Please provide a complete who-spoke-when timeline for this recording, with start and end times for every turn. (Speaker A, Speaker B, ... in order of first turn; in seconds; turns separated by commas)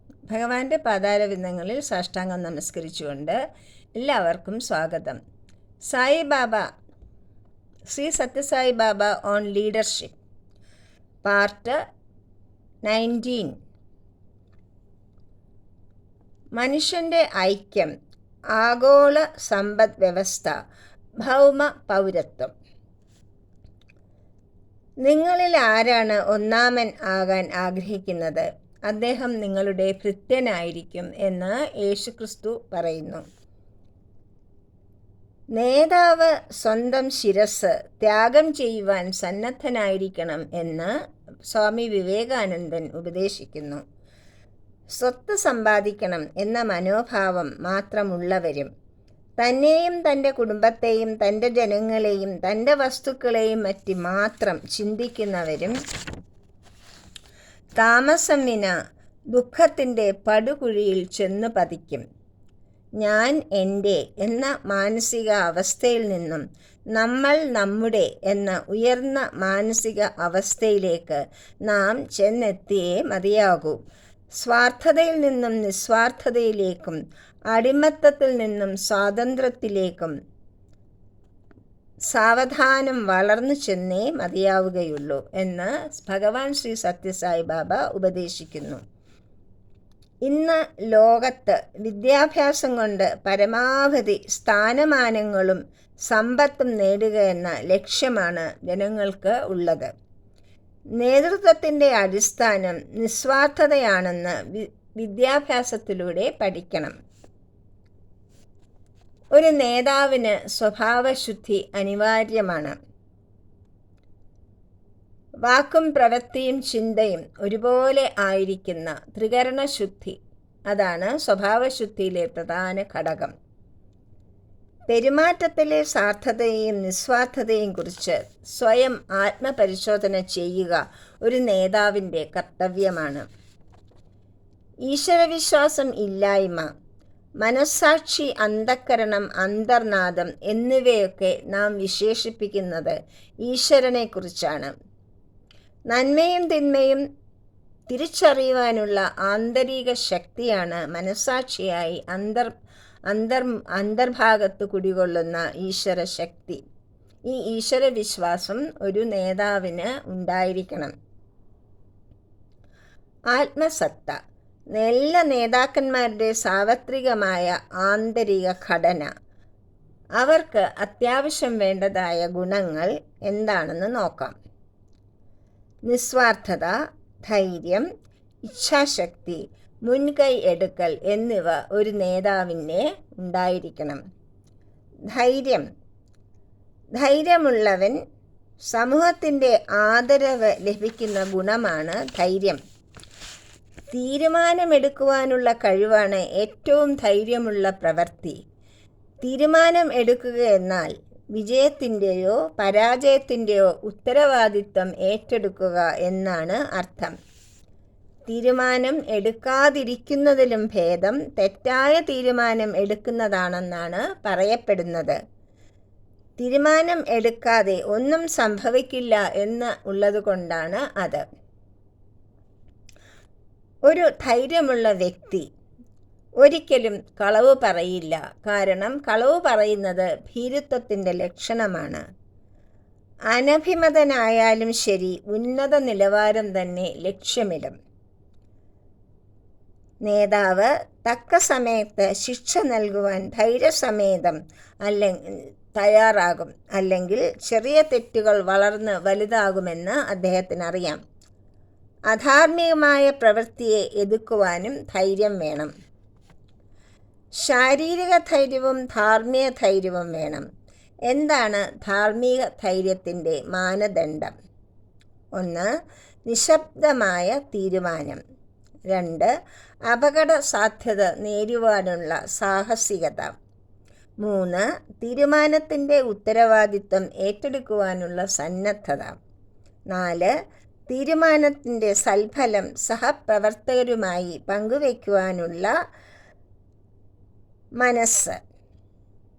Speaker A: 0.3-3.4, Speaker A: 4.0-5.2, Speaker A: 5.9-6.6, Speaker A: 7.9-10.1, Speaker A: 11.2-11.8, Speaker A: 12.8-13.5, Speaker A: 16.6-17.9, Speaker A: 18.6-20.5, Speaker A: 21.2-22.5, Speaker A: 25.0-33.2, Speaker A: 35.5-40.9, Speaker A: 41.5-43.8, Speaker A: 45.0-48.7, Speaker A: 49.4-55.7, Speaker A: 57.8-58.7, Speaker A: 59.3-62.0, Speaker A: 63.0-66.4, Speaker A: 66.9-73.8, Speaker A: 74.4-77.0, Speaker A: 77.5-80.1, Speaker A: 82.1-88.8, Speaker A: 90.2-99.9, Speaker A: 101.0-106.9, Speaker A: 109.3-112.8, Speaker A: 115.5-120.2, Speaker A: 120.7-123.3, Speaker A: 124.9-133.2, Speaker A: 134.9-136.7, Speaker A: 137.4-144.7, Speaker A: 145.9-147.0, Speaker A: 147.9-152.5, Speaker A: 153.1-156.6, Speaker A: 157.3-160.9, Speaker A: 163.3-164.2, Speaker A: 164.7-169.1, Speaker A: 170.2-174.3, Speaker A: 175.9-176.8, Speaker A: 177.3-177.8, Speaker A: 178.4-184.0, Speaker A: 185.1-185.6, Speaker A: 187.0-188.0, Speaker A: 188.7-192.6, Speaker A: 193.9-198.4, Speaker A: 199.2-207.1, Speaker A: 208.3-215.2, Speaker A: 216.4-221.2, Speaker A: 223.9-225.4, Speaker A: 226.4-232.0, Speaker A: 233.3-237.7, Speaker A: 240.1-251.0, Speaker A: 252.1-255.7, Speaker A: 257.4-260.4, Speaker A: 261.1-264.3, Speaker A: 265.4-265.7, Speaker A: 266.3-268.2, Speaker A: 268.9-269.3, Speaker A: 269.9-273.3, Speaker A: 274.2-279.1, Speaker A: 279.9-280.3, Speaker A: 280.9-285.7, Speaker A: 287.8-288.4